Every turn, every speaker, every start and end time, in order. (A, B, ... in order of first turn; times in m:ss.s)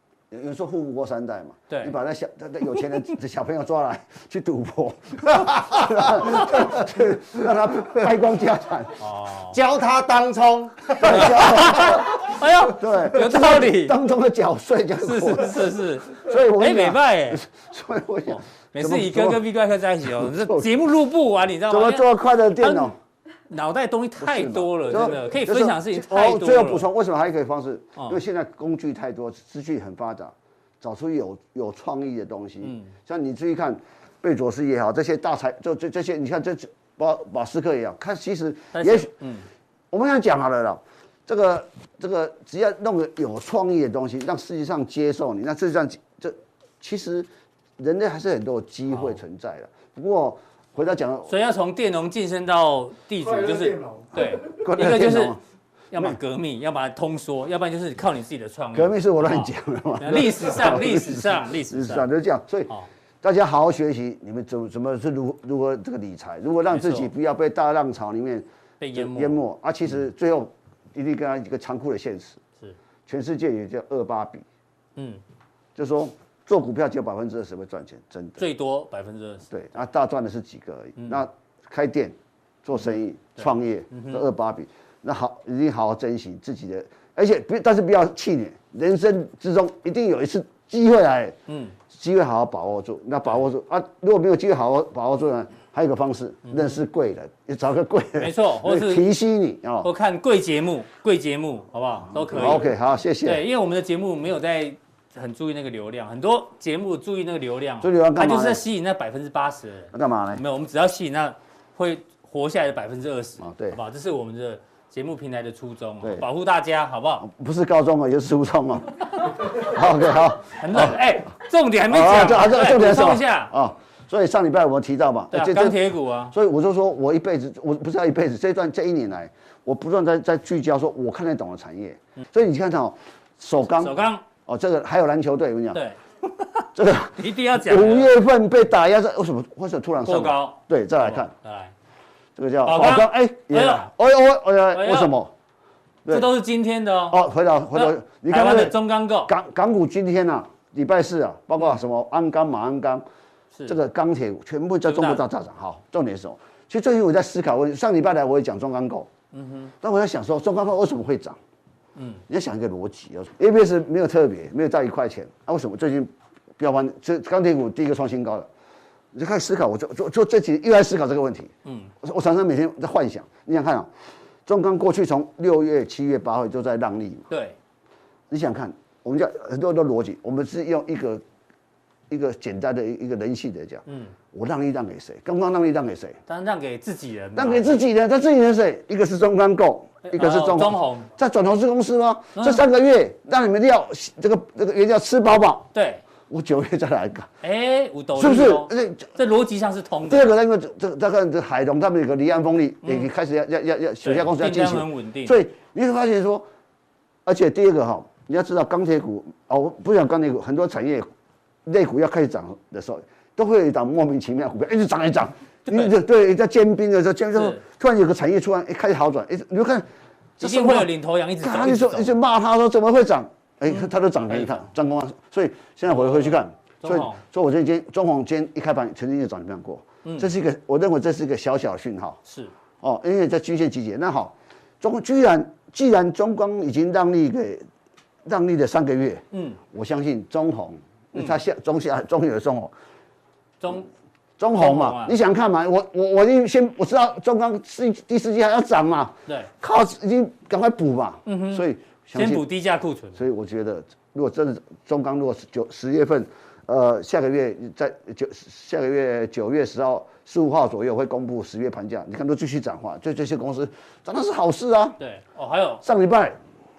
0:00.3-0:09.0 A
0:01.7-0:02.0 B
0:09.0-0:09.6 B
0:09.5-0:11.6 C
0:11.0-0:19.4 A
0:11.0-0:14.0 B
0:15.0-0:17.4 B
0:18.3-0:22.9 B
0:20.0-0:20.7 A
0:21.7-0:22.9 A
0:23.5-0:26.9 B
0:24.2-0:39.1 A
0:32.6-0:32.9 B
0:38.7-0:39.5 B
0:39.9-0:47.3 A
0:47.8-0:51.3 A
0:51.3-0:55.4 B
0:53.2-0:54.2 C
0:54.2-0:55.4 A
0:55.9-1:02.1 B
0:58.8-1:02.7 A
1:03.2-1:12.4 A
1:06.7-1:07.1 B
1:08.8-1:09.4 B
1:13.1-1:14.4 A
1:15.0-1:15.2 B
1:15.8-1:18.4 A
1:18.4-1:19.5 B
1:19.5-1:31.4 A
1:21.0-1:21.2 B
1:23.4-1:24.2 B
1:31.5-1:31.8 B
1:31.9-1:39.9 A
1:36.5-1:36.8 B
1:38.2-1:39.1 B
1:39.8-1:42.7 B
1:42.2-1:43.4 A
1:43.2-1:57.3 B
1:47.8-1:48.6 A
1:49.9-1:50.4 A
1:53.4-1:53.8 A
1:57.2-2:01.0 A
2:00.6-2:03.5 B
2:01.9-2:15.8 A
2:05.3-2:06.3 B
2:13.7-2:14.2 B
2:15.7-2:18.2 B
2:16.8-2:21.3 A
2:20.0-2:21.7 B
2:22.4-2:25.3 A
2:22.6-2:23.9 B
2:24.7-2:25.1 B
2:26.1-2:27.2 B
2:27.1-2:33.0 A
2:27.7-2:29.3 B
2:33.7-2:39.1 A
2:34.9-2:35.2 B
2:39.3-2:39.7 B
2:39.8-2:41.4 A
2:42.0-2:42.2 B
2:42.3-2:48.5 A
2:49.1-2:53.9 A
2:51.7-2:51.9 B
2:54.5-2:57.3 A
2:57.3-2:57.6 B
2:58.3-3:01.2 A
3:02.1-3:06.2 A
3:03.9-3:04.1 B
3:06.3-3:07.8 B
3:07.4-3:15.7 A
3:10.0-3:11.1 B
3:12.4-3:12.6 B
3:15.7-3:16.0 B
3:16.3-3:17.3 A
3:17.4-3:20.4 B
3:18.2-3:19.1 A
3:20.1-3:26.5 A
3:22.8-3:23.1 B
3:24.0-3:25.4 B
3:27.3-3:31.1 A
3:31.7-3:39.9 A
3:37.3-3:37.6 B
3:40.4-3:40.9 A
3:40.4-3:42.2 B
3:41.4-3:52.2 A
3:43.7-3:44.6 B
3:45.9-3:47.2 B
3:52.3-3:52.5 B
3:52.8-3:57.6 A
3:58.2-4:02.7 A
3:59.3-3:59.6 B
4:01.1-4:01.4 B
4:03.6-4:03.9 B
4:04.4-4:12.4 A
4:04.6-4:05.2 B
4:11.3-4:11.6 B
4:12.2-4:13.2 B
4:13.2-4:25.0 A
4:25.0-4:25.8 B
4:25.8-4:26.4 A